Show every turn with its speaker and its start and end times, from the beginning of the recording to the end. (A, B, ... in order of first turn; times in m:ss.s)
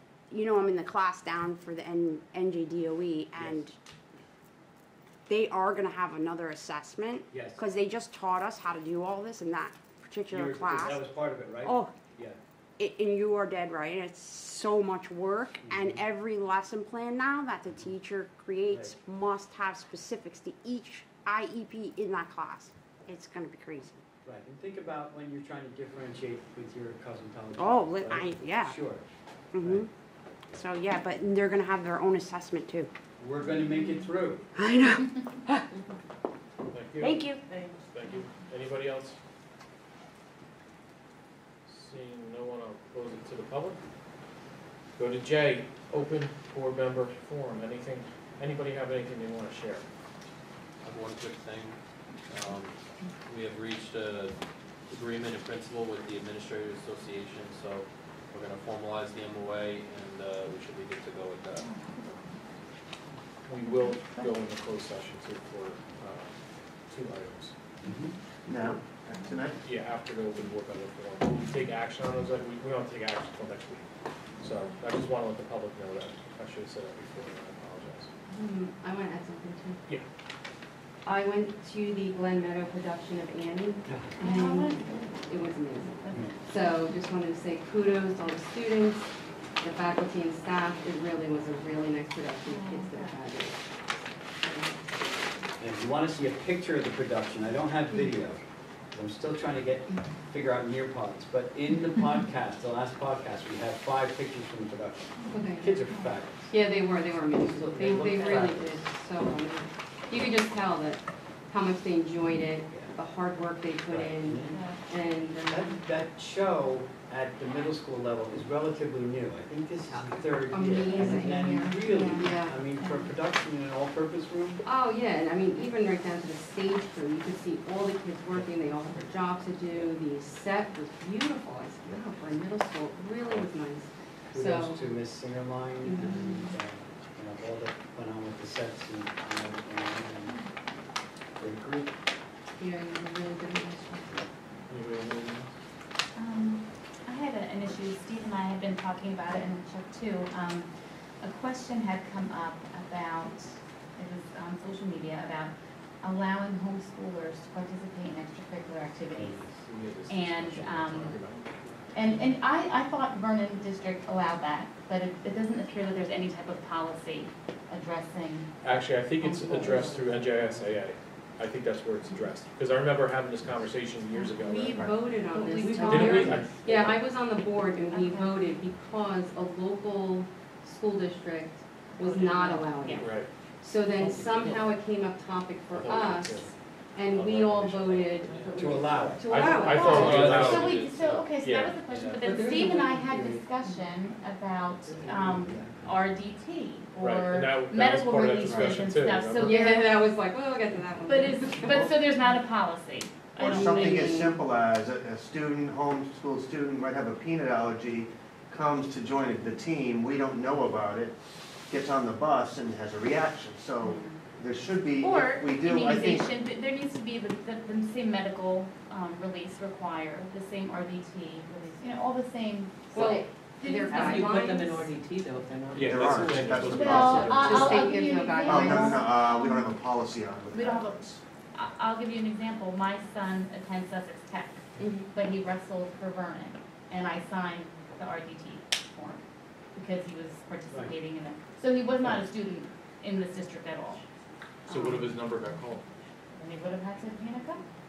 0:00.3-0:03.8 A
0:03.4-0:03.6 B
0:05.3-0:11.0 A
0:07.3-0:07.6 B
0:10.3-0:12.4 B
0:11.6-0:11.9 A
0:12.8-0:24.0 A
0:15.6-0:16.0 B
0:24.2-0:29.0 B
0:27.6-0:28.8 A
0:29.5-0:29.9 A
0:29.6-0:29.9 B
0:30.5-0:32.9 A
0:33.2-0:34.5 B
0:34.6-0:35.6 A
0:36.7-0:39.2 C
0:37.0-0:37.4 A
0:41.7-0:43.8 C
0:45.0-0:49.9 C
0:50.8-0:54.4 D
0:54.9-1:01.7 D
1:01.6-1:02.2 E
1:03.5-1:06.3 C
1:03.7-1:04.3 E
1:06.9-1:07.6 C
1:07.8-1:08.1 B
1:08.5-1:09.6 F
1:09.6-1:13.9 C
1:14.4-1:18.1 C
1:18.3-1:19.8 G
1:21.0-1:29.1 G
1:24.2-1:26.5 E
1:29.6-1:33.6 G
1:32.4-1:33.2 E
1:34.4-1:34.8 G
1:35.6-1:38.4 B
1:38.9-1:46.5 B
1:45.2-1:46.2 E
1:45.3-1:45.8 G
1:46.5-1:55.8 G
1:47.4-1:48.8 B
1:47.9-1:48.5 E
1:53.9-1:54.6 B
1:54.5-1:54.8 E
1:55.5-2:04.6 B
2:00.5-2:02.6 G
2:01.8-2:02.3 E
2:02.8-2:03.1 E
2:04.6-2:14.8 G
2:14.3-2:20.4 B
2:15.8-2:16.5 G
2:21.4-2:21.9 B
2:22.6-2:24.2 G
2:24.7-2:25.5 C
2:26.2-2:30.7 E
2:31.2-2:39.4 E
2:39.1-2:39.5 B
2:39.7-2:41.7 C
2:40.1-2:41.2 E
2:41.9-2:48.6 E
2:48.6-2:55.0 C
2:49.2-2:50.5 E
2:54.3-3:03.1 G
2:55.3-2:56.5 H
2:55.9-2:56.9 C
2:57.9-2:58.4 E
3:02.0-3:03.1 E
3:03.0-3:03.3 C
3:03.6-3:09.8 G
3:04.0-3:04.6 H
3:05.7-3:08.4 C
3:08.3-3:08.6 D
3:08.6-3:09.2 B
3:09.2-3:10.7 C
3:09.6-3:11.3 D
3:09.6-3:20.0 E
3:11.3-3:11.8 C
3:11.9-3:12.2 D
3:12.2-3:13.4 H
3:15.0-3:15.4 H
3:15.5-3:15.7 B
3:17.0-3:19.7 C
3:19.4-3:21.9 G
3:21.1-3:24.1 E
3:23.4-3:31.2 F
3:23.4-3:24.4 G
3:31.7-3:36.3 F
3:33.8-3:34.2 E
3:35.0-3:44.5 E
3:42.9-3:45.0 G
3:43.9-3:47.7 H
3:45.7-3:47.5 C
3:45.8-3:47.6 F
3:46.7-3:49.7 E
3:47.3-3:49.1 G
3:48.4-3:51.2 F
3:50.5-3:51.0 E
3:51.5-3:59.2 E
3:54.8-3:55.1 G
3:59.8-4:04.0 E
4:04.7-4:05.1 E
4:04.7-4:05.9 C
4:06.4-4:07.6 E